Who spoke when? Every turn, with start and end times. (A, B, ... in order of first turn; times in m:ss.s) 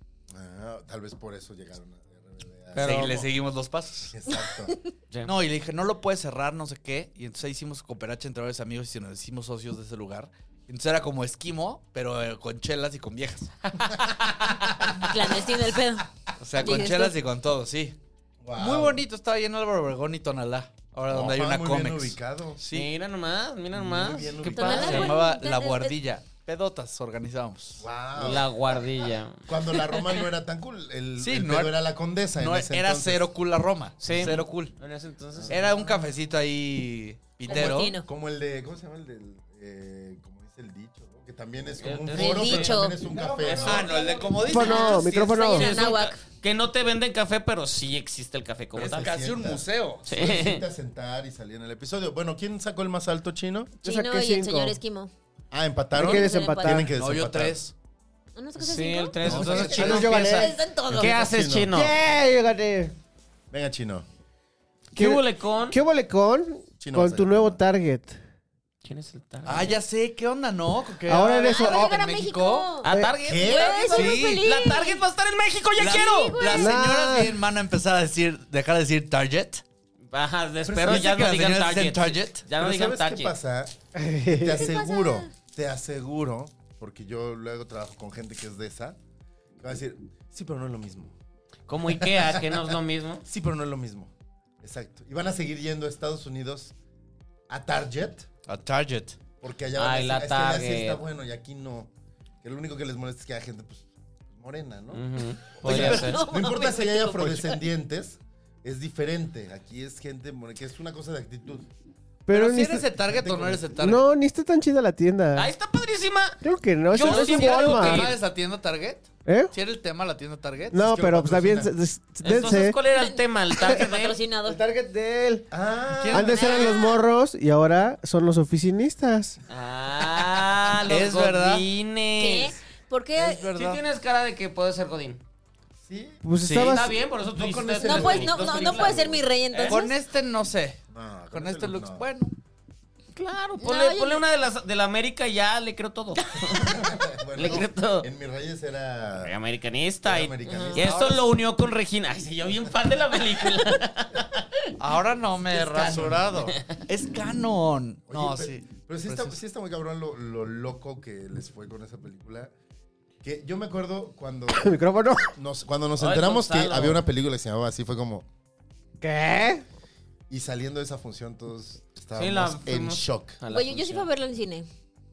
0:00.3-0:03.3 A
0:02.8-0:03.2 B
0:02.8-0:04.1 C
0:04.1-0:04.7 A
0:04.3-0:04.8 D
0:05.2-0:13.5 C
0:15.0-0:16.0 D
0:16.4-0:18.0 C
0:16.6-0:17.2 D
0:18.4-0:19.0 A
0:18.6-0:22.9 C
0:21.1-0:22.6 A
0:22.7-0:25.1 B
0:23.7-0:25.1 A
0:24.5-0:26.0 D
0:24.5-0:27.9 C
0:27.8-0:28.8 A
0:28.1-0:29.9 B
0:29.5-0:33.2 A
0:31.2-0:31.7 C
0:32.4-0:34.7 C
0:34.0-0:35.7 B
0:35.4-0:36.0 A
0:35.5-0:38.0 C
0:37.4-0:38.1 D
0:37.5-0:43.9 A
0:41.8-0:44.1 B
0:42.1-0:43.0 D
0:43.3-0:45.9 C
0:43.9-0:46.2 D
0:44.4-0:45.8 E
0:45.5-0:49.1 B
0:48.8-0:50.1 C
0:48.8-0:53.7 A
0:50.1-0:50.6 B
0:53.8-0:54.8 E
0:53.8-0:55.1 D
0:55.5-0:57.6 A
0:55.9-0:56.9 E
0:56.0-0:56.8 D
0:56.9-0:57.7 C
0:58.4-0:59.2 D
0:58.6-1:01.9 B
0:59.2-1:00.2 C
0:59.2-1:00.3 A
0:59.6-1:00.5 E
0:59.7-1:01.2 D
1:00.9-1:01.7 A
1:01.7-1:02.9 E
1:03.5-1:04.1 A
1:04.9-1:05.8 B
1:05.0-1:08.2 E
1:06.8-1:07.6 A
1:08.8-1:09.8 B
1:09.4-1:12.8 C
1:11.1-1:12.0 E
1:11.4-1:12.9 D
1:12.8-1:16.5 B
1:12.9-1:13.1 E
1:13.2-1:13.9 A
1:13.4-1:15.0 D
1:13.9-1:14.4 C
1:15.8-1:19.6 C
1:15.8-1:16.7 D
1:16.5-1:17.4 E
1:20.1-1:23.3 B
1:20.6-1:21.3 A
1:20.8-1:22.4 C
1:22.5-1:23.7 A
1:23.9-1:24.7 E
1:24.3-1:29.0 A
1:24.6-1:25.3 D
1:29.6-1:31.2 A
1:31.7-1:33.2 B
1:31.9-1:36.7 A
1:37.5-1:38.3 A
1:38.5-1:39.2 C
1:39.4-1:41.9 A
1:39.7-1:41.0 B
1:42.4-1:51.7 A
1:44.9-1:46.2 B
1:45.6-1:46.2 C
1:45.6-1:47.6 D
1:52.3-1:52.9 E
1:52.3-1:54.1 C
1:53.0-1:53.7 A
1:53.8-1:55.5 E
1:55.4-1:58.2 B
1:56.4-1:58.1 E
1:57.0-2:01.6 C
1:59.2-1:59.5 E
2:00.7-2:02.8 E
2:01.1-2:01.7 A
2:02.2-2:04.2 B
2:02.9-2:04.6 D
2:04.4-2:05.5 E
2:05.5-2:06.4 A
2:05.9-2:06.7 C
2:06.1-2:09.4 E
2:06.3-2:07.0 D
2:09.5-2:12.6 B
2:10.9-2:11.7 C
2:12.2-2:13.5 D
2:13.2-2:13.8 C
2:13.6-2:15.2 B
2:15.8-2:16.2 A
2:16.2-2:17.0 E
2:16.4-2:16.8 C
2:16.6-2:19.9 B
2:17.2-2:19.2 A
2:17.8-2:19.9 D
2:19.7-2:20.8 C
2:20.9-2:22.0 A
2:21.3-2:22.3 C
2:23.1-2:28.1 B
2:23.6-2:24.2 D
2:26.6-2:29.4 A
2:29.2-2:34.2 B
2:30.0-2:30.9 A
2:30.4-2:30.8 D
2:30.8-2:31.3 C
2:34.8-2:39.4 C
2:35.5-2:36.5 A
2:36.5-2:36.8 B
2:38.1-2:42.5 A
2:43.2-2:44.7 A
2:44.5-2:45.3 E
2:45.3-2:48.3 A
2:46.0-2:47.0 B
2:49.0-2:49.6 E
2:50.3-2:53.4 A
2:52.1-2:54.1 B
2:53.5-2:54.7 D